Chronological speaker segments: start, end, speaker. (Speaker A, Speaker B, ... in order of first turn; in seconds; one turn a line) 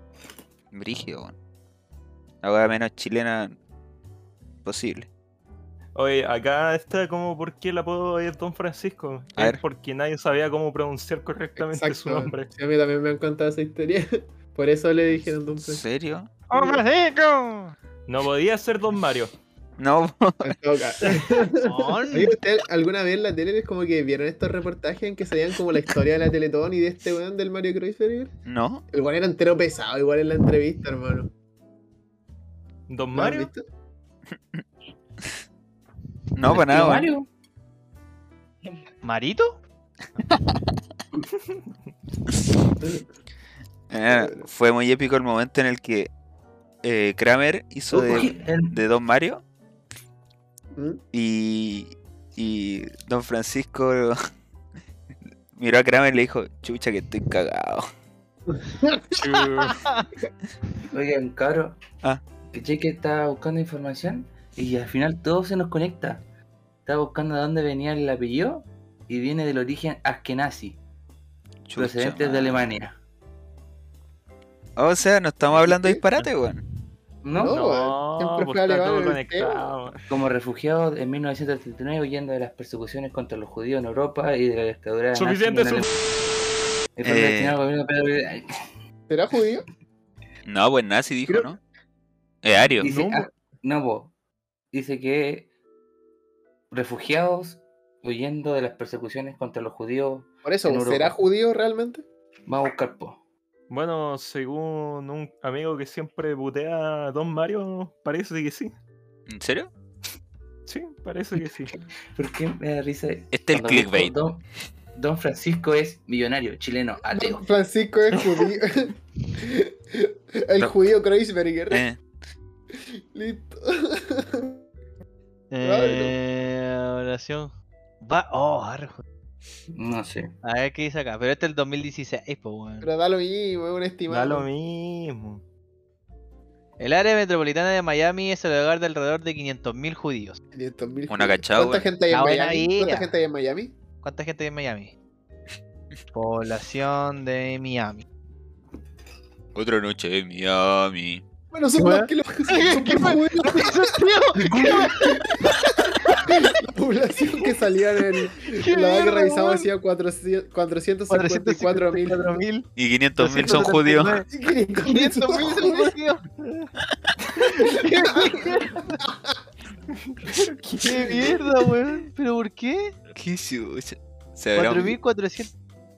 Speaker A: 0.7-1.3
Speaker A: 2.4-3.5
Speaker A: 4.6-5.1
Speaker B: 5.9-12.5
Speaker C: 11.6-15.8
Speaker A: 15.6-16.3
Speaker D: 16.5-17.7
Speaker B: 18.1-19.3
Speaker A: 19.8-20.6
Speaker C: 20.4-28.3
Speaker D: 21.6-22.3
Speaker A: 28.4-28.8
Speaker C: 28.9-31.3
Speaker B: 32.9-33.5
Speaker C: 33.1-33.6
Speaker A: 36.3-37.1
Speaker E: 36.4-37.3
Speaker D: 39.0-39.6
Speaker B: 41.3-41.6
Speaker A: 43.9-46.1
Speaker C: 44.0-44.5
Speaker A: 46.8-49.4
Speaker E: 47.9-48.8
Speaker C: 50.7-51.0
Speaker A: 51.1-54.2
Speaker A: 55.5-57.9
Speaker C: 58.5-59.1
Speaker B: 59.2-59.8
Speaker D: 59.6-60.0
Speaker E: 60.9-61.8
Speaker E: 62.5-66.2
Speaker E: 66.9-70.8
Speaker A: 71.7-72.7
Speaker E: 71.8-73.0
Speaker A: 74.8-76.6
Speaker C: 75.5-76.0
Speaker E: 77.2-77.6
Speaker C: 77.4-79.8
Speaker B: 77.4-80.0
Speaker E: 80.1-85.9
Speaker B: 85.1-85.9
Speaker E: 87.0-88.5
Speaker A: 87.0-87.6
Speaker C: 89.1-89.7
Speaker A: 90.4-91.6
Speaker A: 92.4-92.9
Speaker E: 92.8-94.1
Speaker B: 92.8-93.2
Speaker E: 94.7-95.5
Speaker E: 96.7-101.1
Speaker C: 100.4-102.0
Speaker E: 102.5-103.2
Speaker B: 103.7-108.7
Speaker A: 109.3-109.7
Speaker B: 110.7-111.7
Speaker E: 112.2-117.4
Speaker A: 113.3-114.1
Speaker C: 117.1-121.8
Speaker A: 121.7-122.0
Speaker C: 123.1-124.6
Speaker D: 125.5-129.0
Speaker C: 125.6-126.2
Speaker E: 129.7-130.3
Speaker D: 130.4-132.9
Speaker C: 132.8-134.5
Speaker B: 134.1-135.4
Speaker D: 136.8-140.4
Speaker C: 140.5-143.7
Speaker A: 141.1-141.9
Speaker D: 142.1-143.1
Speaker D: 144.0-144.9
Speaker D: 146.1-148.1
Speaker A: 149.6-151.2
Speaker C: 151.5-162.4
Speaker D: 151.8-156.3
Speaker D: 158.4-159.7
Speaker D: 161.1-162.7
Speaker A: 162.8-164.2
Speaker D: 163.2-164.3
Speaker C: 164.3-165.9
Speaker D: 164.8-166.2
Speaker B: 166.4-166.7
Speaker D: 167.6-169.0
Speaker C: 167.8-168.4
Speaker C: 169.1-169.4
Speaker B: 169.9-171.4
Speaker D: 170.8-172.9
Speaker A: 173.1-175.0
Speaker D: 174.6-175.5